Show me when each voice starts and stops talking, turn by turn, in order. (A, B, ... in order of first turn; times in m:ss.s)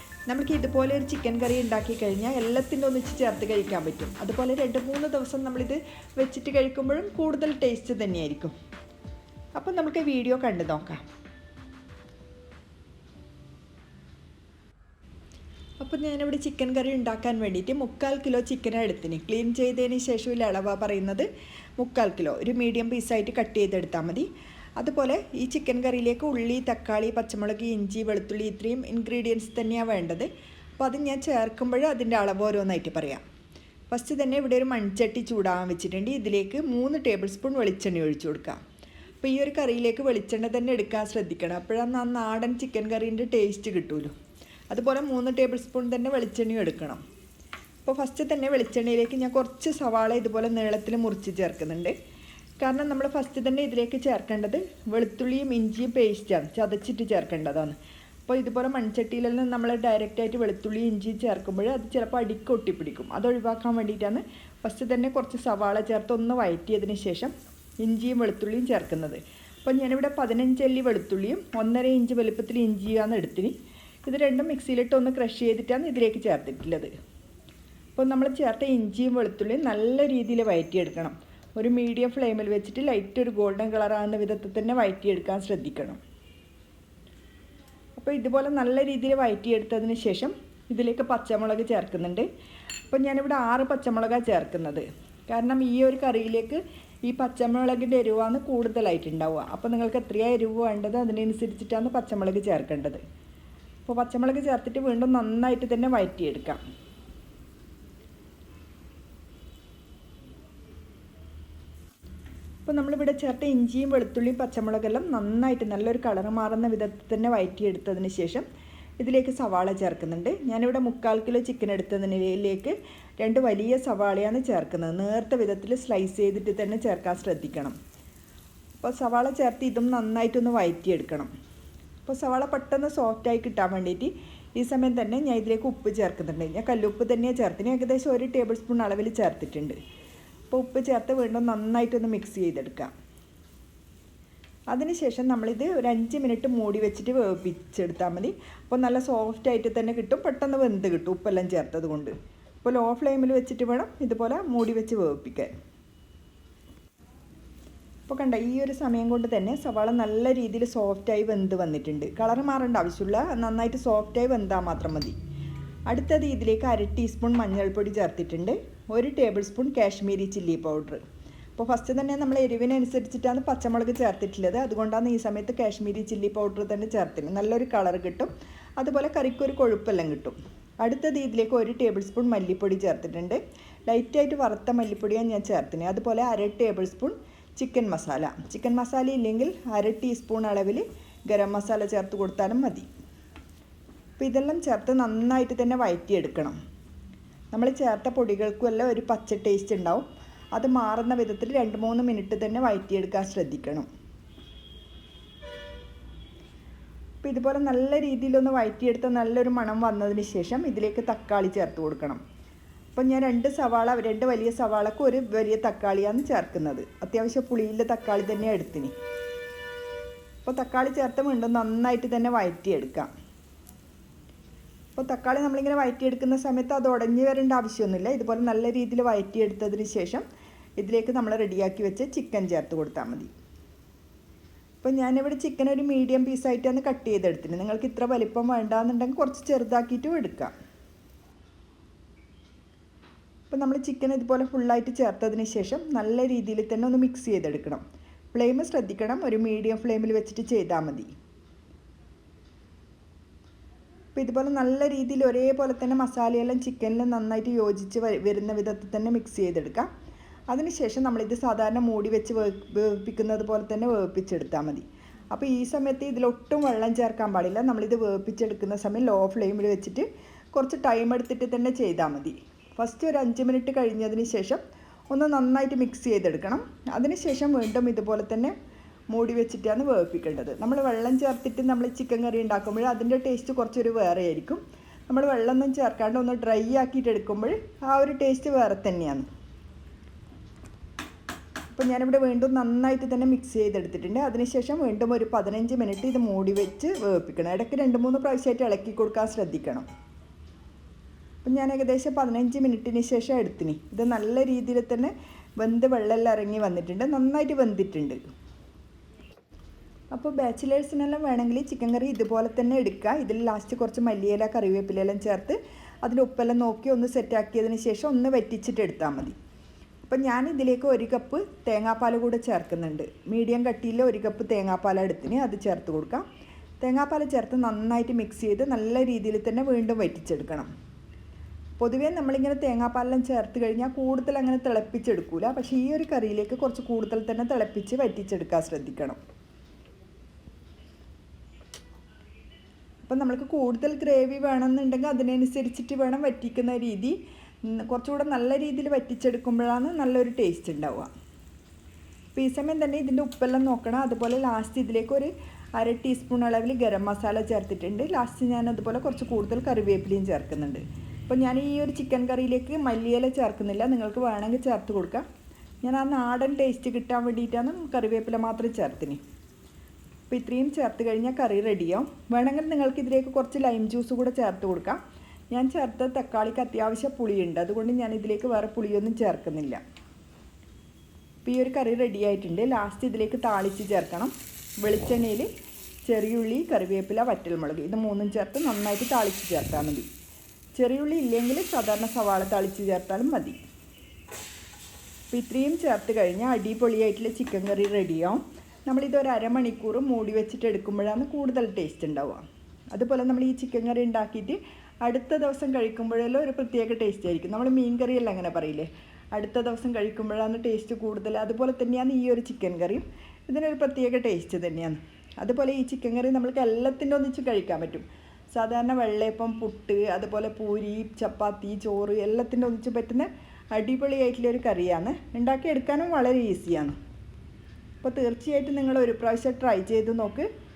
0:00.3-0:08.5 A
0:09.6-0:11.0 A
0:15.8-0:21.3 A
0:21.8-0:24.3 A
0:24.8-0:33.2 A
0:33.9-0:38.6 A
0:39.2-0:44.1 A
0:44.7-0:47.0 A
0:47.8-0:52.0 A
0:52.6-0:57.8 A
0:58.3-1:13.6 A
1:14.1-1:16.9 A
1:18.0-1:26.0 A
1:28.0-1:32.3 A
1:32.9-1:43.0 A
1:43.9-1:46.6 A
1:52.6-1:58.4 A
1:59.0-2:07.8 A
2:08.8-2:11.3 A
2:12.1-2:19.8 A
2:20.5-2:22.9 A
2:24.7-2:35.5 A
2:38.1-2:45.2 A
2:45.9-2:51.0 A
2:51.6-3:12.9 A
3:14.2-3:16.6 A
3:17.5-3:23.9 A
3:27.2-3:32.2 A
3:32.9-3:38.9 A
3:40.4-3:43.1 A
3:45.0-3:50.2 A
3:50.8-3:53.3 A
3:54.8-4:00.5 A
4:03.5-4:11.1 A
4:14.2-4:19.9 A
4:20.5-4:38.5 A
4:39.1-4:49.3 A
4:51.7-4:59.9 A
5:01.4-5:08.2 A
5:10.1-5:19.4 A
5:20.0-5:26.2 A
5:26.8-5:30.7 A
5:31.8-5:39.2 A
5:43.0-5:51.1 A
5:52.4-6:05.2 A
6:05.8-6:09.2 A
6:10.3-6:15.0 A
6:15.5-6:19.8 A
6:21.4-6:25.5 A
6:26.1-6:30.1 A
6:30.8-6:33.6 A
6:35.3-7:07.0 A
7:08.0-7:10.5 A